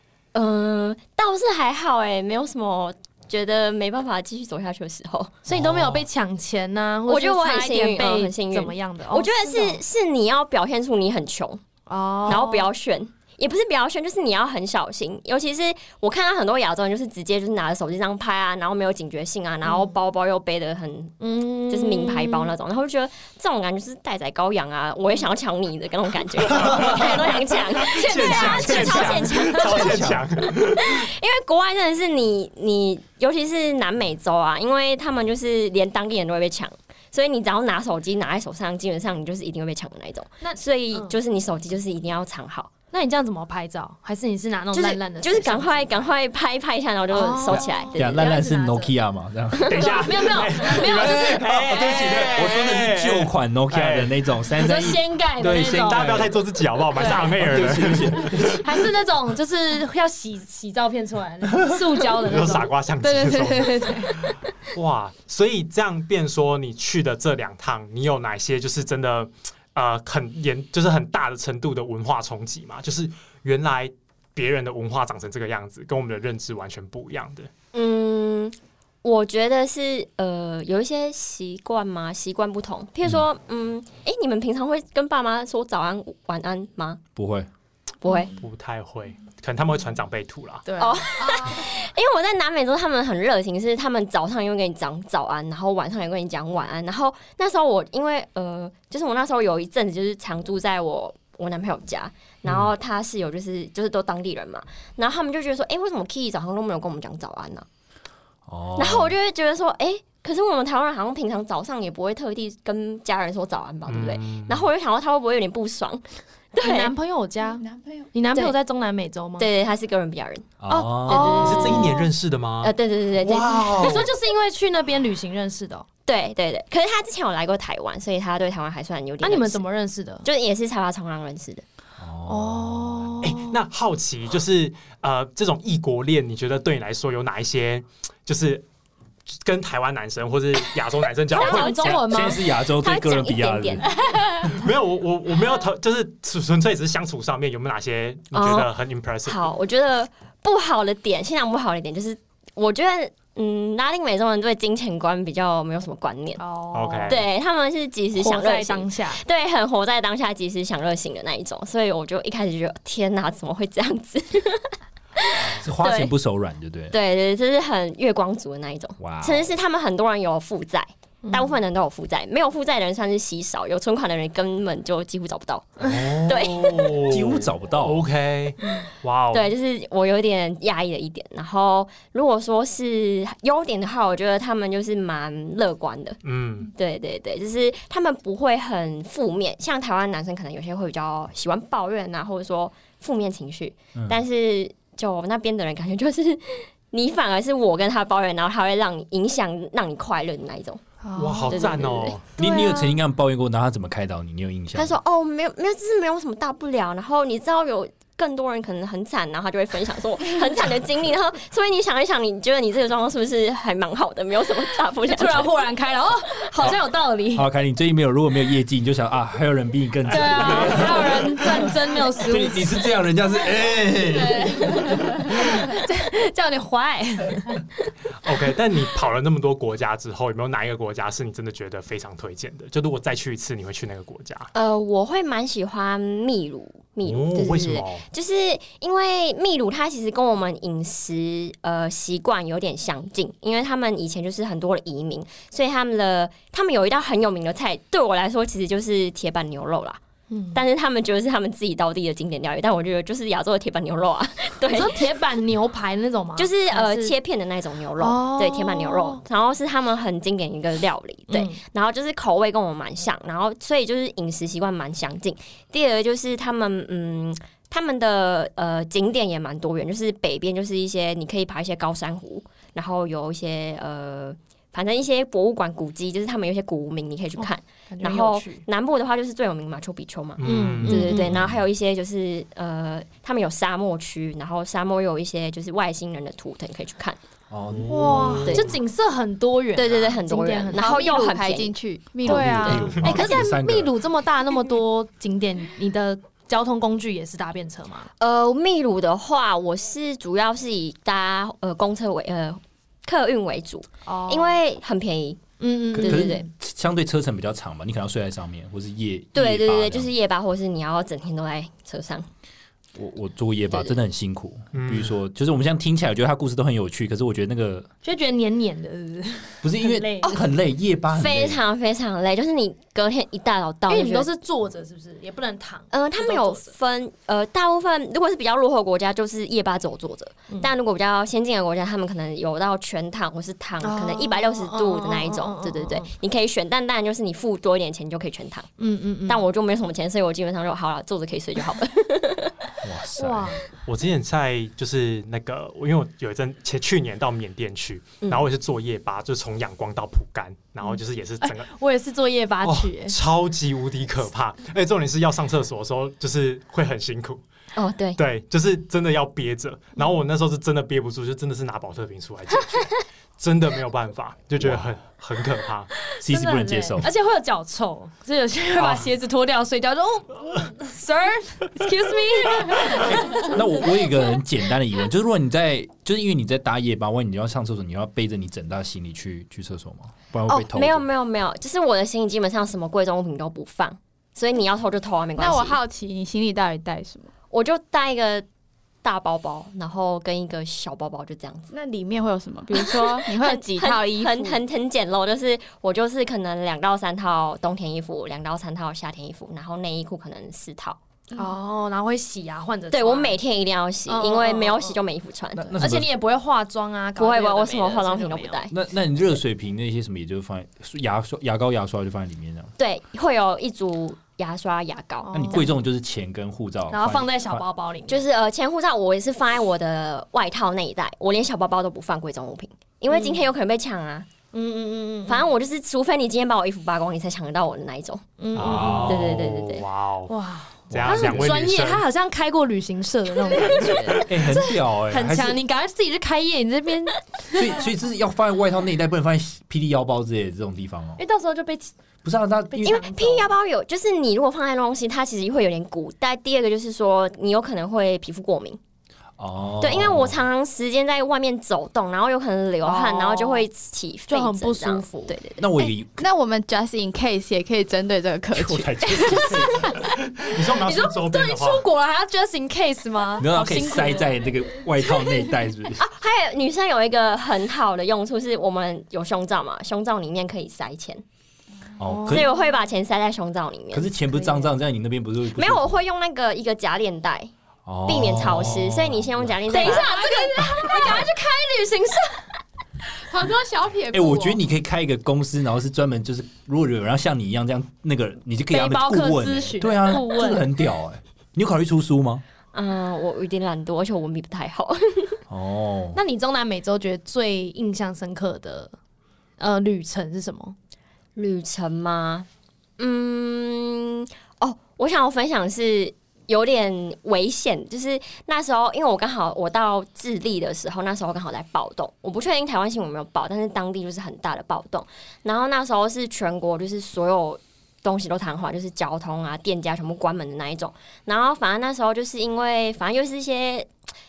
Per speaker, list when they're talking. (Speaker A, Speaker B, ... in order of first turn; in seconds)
Speaker A: 0.3-5.4, 7.1-11.6, 12.2-21.1, 21.7-42.7, 44.7-48.4, 77.7-87.0, 88.0-88.3, 90.8-107.7, 108.8-116.9, 119.4-122.0, 122.6-124.0, 126.0-129.6, 130.2-131.6, 141.3-143.8, 148.3-148.7, 149.2-156.4, 157.1-166.1, 166.9-177.0, 179.3-200.8, 201.5-202.2, 204.7-215.5, 234.5-250.0, 250.5-255.0, 256.4-287.2, 288.4-288.7, 289.7-291.7, 298.2-305.4, 306.0-306.5, 309.3-312.3, 321.1-324.3, 325.9-338.7, 339.3-342.6, 357.8-358.2, 380.5-385.8, 387.5-388.4, 389.0-391.7, 392.7-401.0, 402.9-405.8, 407.2-408.7, 412.8-415.6, 418.1-424.3, 425.3-428.2, 429.0-429.9, 442.8-448.8, 449.8-455.6, 466.0-471.2, 472.2-474.1, 475.5-477.5, 478.0-480.3, 492.7-495.4, 501.4-502.5, 503.0-523.9
Speaker B: 5.5-9.8, 11.9-12.7, 19.6-19.9, 21.2-22.5, 27.9-29.8, 40.4-41.1, 42.9-45.9, 47.1-48.9, 49.7-51.5, 54.6-56.3, 57.0-57.3, 58.6-64.3, 116.6-119.5, 121.1-122.0, 123.6-125.8, 129.2-130.2, 132.3-133.6, 141.3-142.4, 156.4-157.2, 158.1-159.2, 171.2-171.6, 201.0-201.7, 202.4-203.0, 215.1-217.4, 220.1-222.7, 224.1-227.6, 250.3-250.6, 254.7-257.1, 258.0-259.2, 261.3-261.6, 277.4-278.6, 280.4-281.3, 287.9-291.1, 292.2-298.1, 304.1-304.6, 305.6-306.4, 318.0-320.4, 323.9-326.7, 333.8-336.1, 338.8-339.4, 343.1-343.6, 351.4-353.1, 366.1-373.6, 401.4-403.4, 404.1-405.0, 405.8-408.6, 415.2-415.7, 416.9-418.2, 423.1-423.5, 424.5-425.5, 428.4-429.1, 430.3-437.7, 441.2-441.9, 442.7-443.5, 452.8-453.6, 454.3-455.3, 459.4-464.3, 472.1-472.5, 479.7-482.5, 488.7-490.7, 496.1-498.9, 499.6-500.7
Speaker C: 5.5-5.9, 26.5-31.0, 49.6-54.2, 55.4-58.6, 62.2-77.5, 88.4-90.8, 113.9-114.7, 121.2-124.1, 133.2-138.7, 139.3-142.1, 144.4-149.5, 156.7-157.2, 175.8-179.5, 186.2-186.7, 201.1-202.3, 228.2-234.5, 237.0-238.1, 280.4-281.5, 287.7-288.7, 292.8-293.2, 314.7-315.1, 343.9-351.7, 352.6-357.4, 358.1-365.9, 368.8-369.1, 428.5-430.3, 430.9-432.0, 460.4-461.9
Speaker D: 28.7-29.1, 29.6-30.2, 47.9-56.3, 57.0-58.6, 87.2-87.5, 108.5-109.1, 120.6-121.4, 132.0-133.3, 141.9-143.9, 165.6-166.9, 169.0-169.5, 177.0-178.1, 202.4-204.9, 217.3-225.2, 287.5-288.6, 292.2-293.9, 305.9-310.1, 312.9-317.9, 319.6-321.6, 342.8-343.6, 364.6-364.9, 366.2-367.1, 372.9-381.1, 405.5-406.1, 408.7-412.7, 415.3-417.6, 428.6-429.3, 430.9-431.6, 434.2-435.6, 437.5-441.2, 442.2-443.0, 449.4-450.4, 455.6-456.2, 458.5-460.0, 463.4-466.0, 472.0-472.5, 473.9-476.0, 477.9-480.1, 484.1-492.4, 495.5-496.2
Speaker E: 290.7-292.9, 385.4-387.3, 391.7-394.6, 456.2-459.7, 480.3-480.7, 483.2-484.6